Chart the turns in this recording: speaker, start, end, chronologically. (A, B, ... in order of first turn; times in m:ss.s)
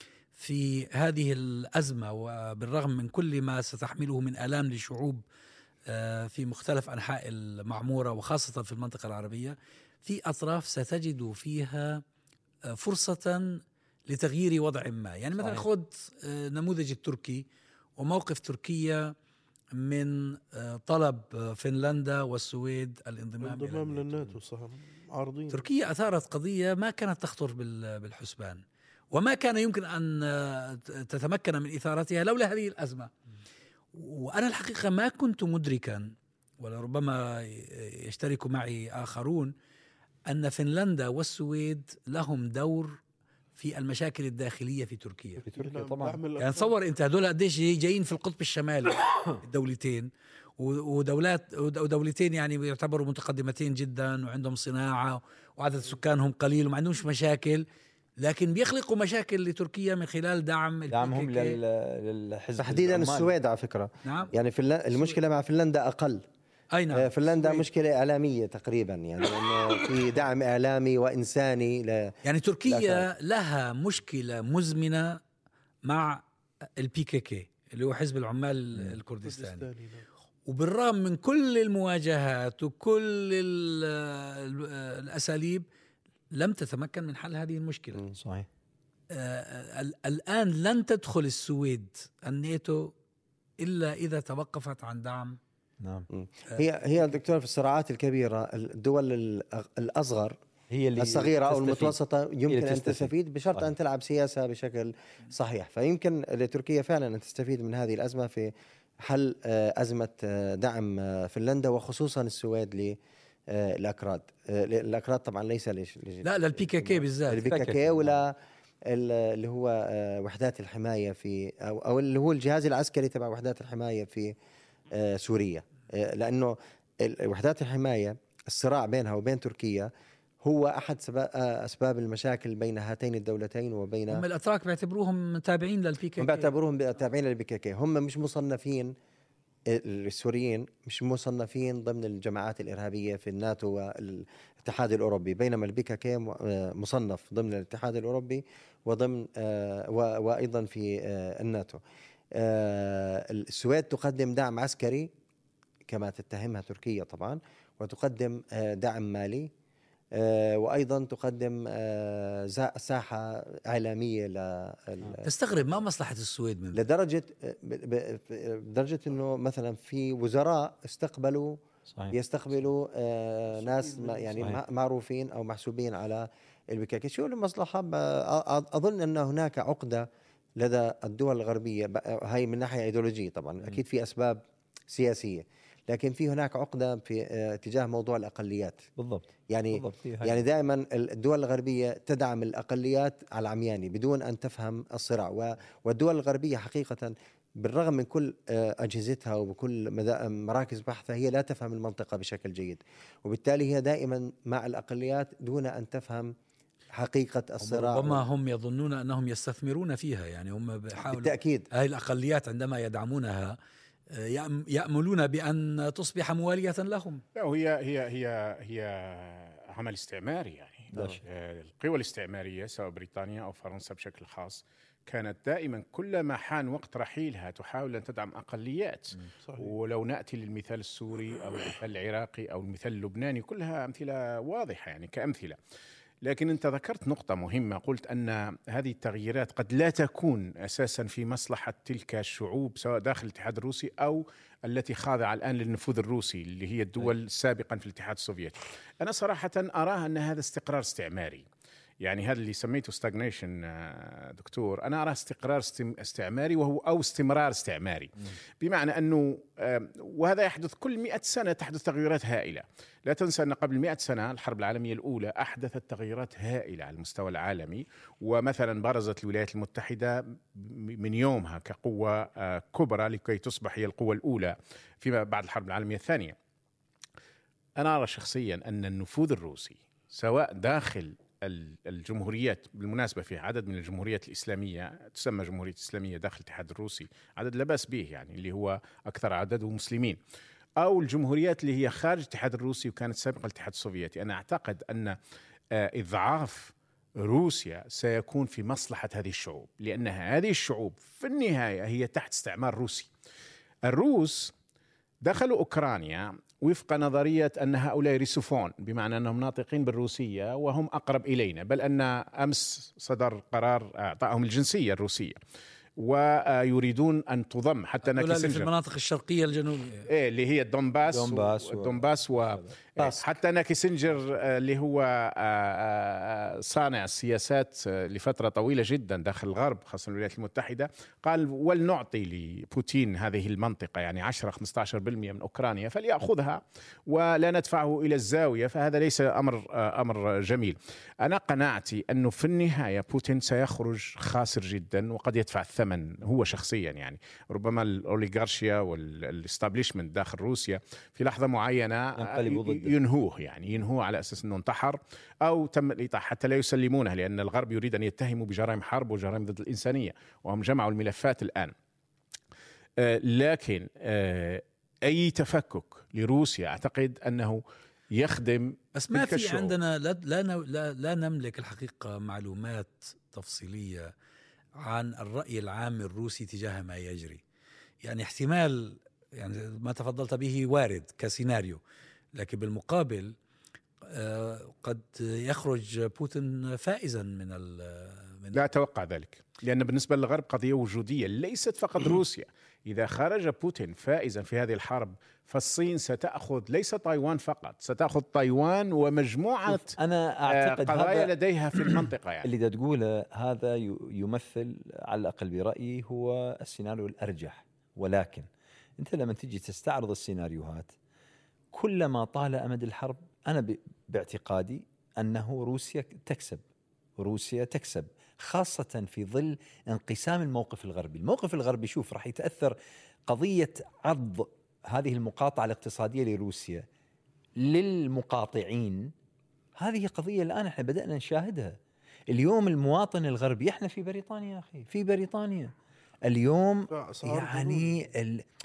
0:00.4-0:05.2 A
0:05.9-0:12.0 A
0:12.7-0:17.5 A
0:15.4-0:15.6 B
0:18.0-0:19.2 A
0:19.7-0:24.3 A
0:23.4-0:25.6 C
0:25.5-0:33.1 A
0:33.9-0:39.5 A
0:40.3-0:43.0 A
0:43.6-0:45.4 A
0:45.4-0:46.2 B
0:45.6-0:46.7 C
0:46.4-0:57.7 A
0:58.2-1:01.6 A
1:00.9-1:03.3 B
1:02.6-1:06.2 D
1:04.0-1:04.3 A
1:06.7-1:07.6 A
1:06.9-1:12.1 D
1:12.2-1:15.2 A
1:12.7-1:13.1 D
1:15.8-1:16.2 A
1:16.8-1:19.6 A
1:19.2-1:20.0 C
1:20.5-1:25.7 A
1:26.3-1:28.1 A
1:28.2-1:28.5 B
1:29.1-1:32.9 A
1:33.6-1:35.4 A
1:35.8-1:36.1 B
1:36.1-1:40.4 D
1:40.7-1:42.0 B
1:41.0-1:53.0 D
1:42.5-1:43.7 B
1:53.5-1:58.4 D
1:56.2-1:57.4 A
1:57.4-1:58.2 B
1:58.9-2:04.4 D
2:04.9-2:09.9 D
2:10.4-2:14.2 D
2:14.1-2:16.5 A
2:16.2-2:18.9 D
2:19.7-2:31.8 D
2:32.3-2:35.1 D
2:35.9-2:39.5 D
2:40.1-2:45.3 D
2:45.2-2:46.8 A
2:46.7-2:51.6 D
2:51.9-2:52.2 B
2:52.1-3:00.1 D
2:53.6-2:54.5 C
3:00.6-3:08.9 D
3:09.0-3:10.4 B
3:09.5-3:26.3 D
3:26.9-3:28.2 D
3:27.6-3:33.6 A
3:31.0-3:31.7 D
3:34.1-3:37.2 A
3:37.4-3:55.6 E
3:40.9-3:41.2 D
3:49.5-3:49.7 C
3:56.2-4:11.4 E
4:12.0-4:36.4 E
4:37.8-4:50.2 E
4:50.8-4:55.2 E
4:55.7-5:03.1 E
5:03.8-5:04.5 E
5:05.2-5:15.4 E
5:16.0-5:18.7 E
5:18.1-5:20.1 A
5:20.1-6:01.7 E
5:21.1-5:22.7 B
5:52.2-5:53.0 B
6:03.0-6:07.6 E
6:08.1-6:09.8 E
6:09.0-6:14.1 A
6:14.8-6:17.4 A
6:18.0-6:21.8 A
6:22.4-6:23.4 A
6:24.0-6:28.6 A
6:28.5-6:42.5 E
6:39.7-6:41.3 B
6:41.8-6:50.9 B
6:51.7-6:56.6 B
6:57.2-7:06.9 B
7:07.6-7:09.1 B
7:09.8-7:11.8 B
7:12.3-7:15.7 B
7:16.2-7:18.4 B
7:16.9-7:17.9 C